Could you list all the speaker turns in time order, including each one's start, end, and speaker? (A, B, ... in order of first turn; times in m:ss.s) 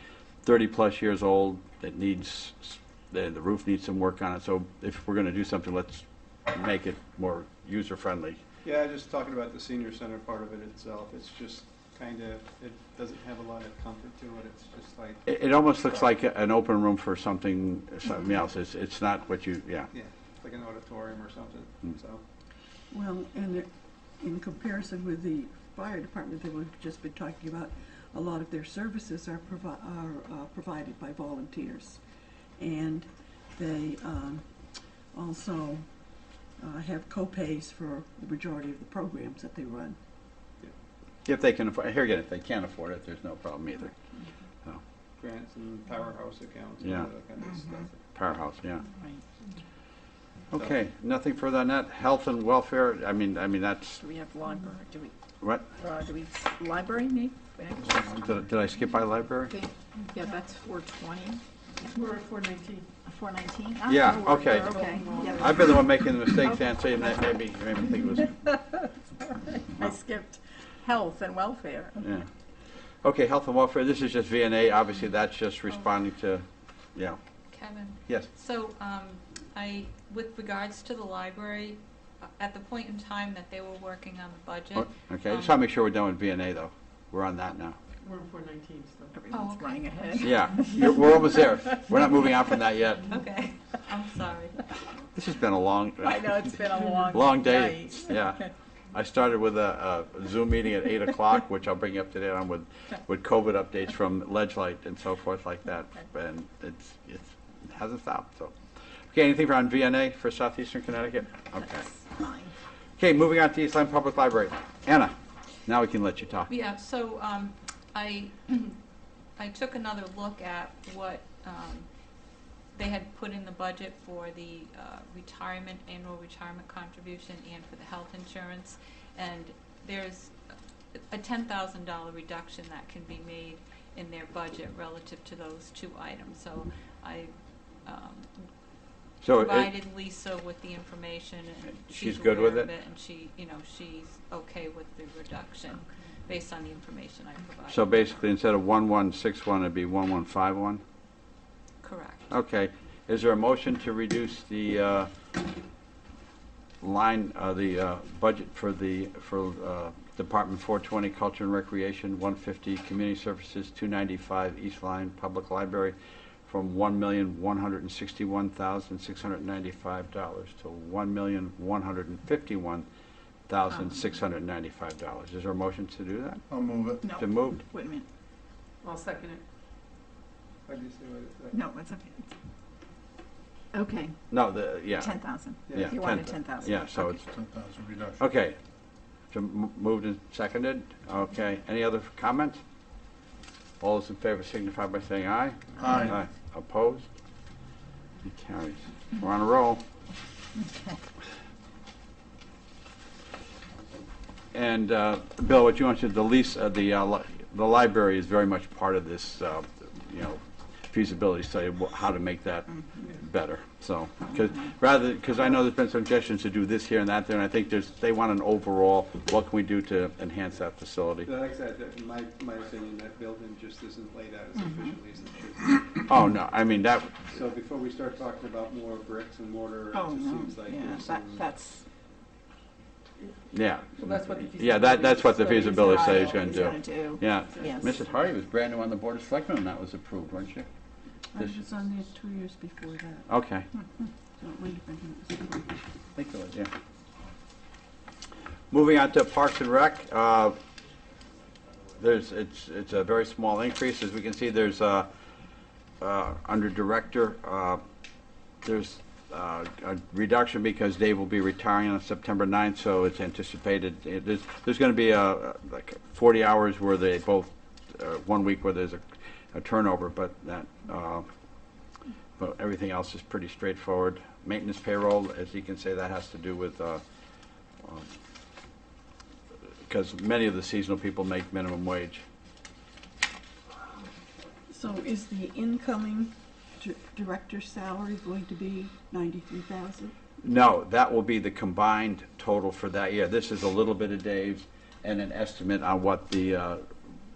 0:00.4-0:08.4 A
0:08.6-0:15.4 B
0:15.2-0:19.9 A
0:19.9-0:22.2 B
0:22.9-0:32.0 C
0:32.6-0:34.5 C
0:35.1-0:40.0 C
0:41.2-0:43.9 A
0:45.2-0:48.0 B
0:46.8-0:47.1 A
0:48.1-0:48.8 A
0:48.8-0:49.2 D
0:50.5-0:54.0 A
0:54.0-0:55.1 D
0:55.4-0:55.7 A
0:55.7-0:58.1 D
0:58.0-0:58.4 E
0:58.0-0:59.6 A
0:59.5-1:01.4 D
1:01.9-1:02.9 F
1:03.0-1:05.8 D
1:03.9-1:04.8 A
1:04.5-1:05.6 F
1:05.4-1:08.4 A
1:06.4-1:07.2 D
1:09.7-1:12.0 D
1:12.0-1:12.3 A
1:13.0-1:17.2 A
1:17.5-1:25.5 G
1:24.8-1:27.8 A
1:28.0-1:29.2 F
1:29.1-1:32.6 D
1:29.3-1:30.3 G
1:30.2-1:33.1 A
1:33.1-1:34.6 G
1:35.1-1:48.5 A
1:36.0-1:38.5 D
1:49.1-1:51.9 A
1:51.8-1:52.5 D
1:53.0-1:55.1 A
1:55.6-1:56.5 A
1:56.5-1:58.8 G
1:59.4-2:01.9 G
2:02.7-2:10.3 G
2:10.9-2:18.5 G
2:19.2-2:19.7 A
2:19.3-2:28.1 G
2:21.9-2:22.7 A
2:27.7-2:30.8 A
2:31.8-2:32.3 G
2:32.3-2:35.1 A
2:36.8-2:52.9 A
2:53.5-2:56.4 A
2:56.5-2:57.1 E
2:57.0-2:58.0 D
2:57.2-2:57.6 A
2:58.8-2:59.4 F
3:00.6-3:01.6 B
3:01.5-3:02.3 D
3:03.7-3:04.2 D
3:04.3-3:05.1 A
3:04.9-3:07.2 D
3:05.7-3:06.0 B
3:05.7-3:07.2 A
3:07.2-3:08.2 E
3:08.2-3:08.6 A
3:09.3-3:12.6 A
3:13.8-3:17.1 A
3:15.8-3:16.1 E
3:18.2-3:19.8 A
3:24.5-3:41.3 A
3:32.8-3:33.1 D
3:34.3-3:34.7 D
3:41.2-3:46.1 B
3:44.6-3:44.9 D
3:46.0-3:47.2 A
3:47.3-3:51.5 B
3:49.9-3:51.9 D
3:53.5-4:00.7 A
3:54.0-3:57.7 F
3:55.5-3:58.0 D
4:01.3-4:03.3 C
4:03.3-4:03.7 A
4:04.4-4:05.9 C
4:06.1-4:06.7 A
4:08.7-4:10.6 A
4:12.0-4:15.1 A
4:16.0-4:17.8 A
4:18.6-4:31.3 A
4:32.4-4:37.0 A
4:37.8-4:38.1 A
4:39.9-4:42.2 A
4:44.7-4:50.1 C
4:50.4-4:56.8 A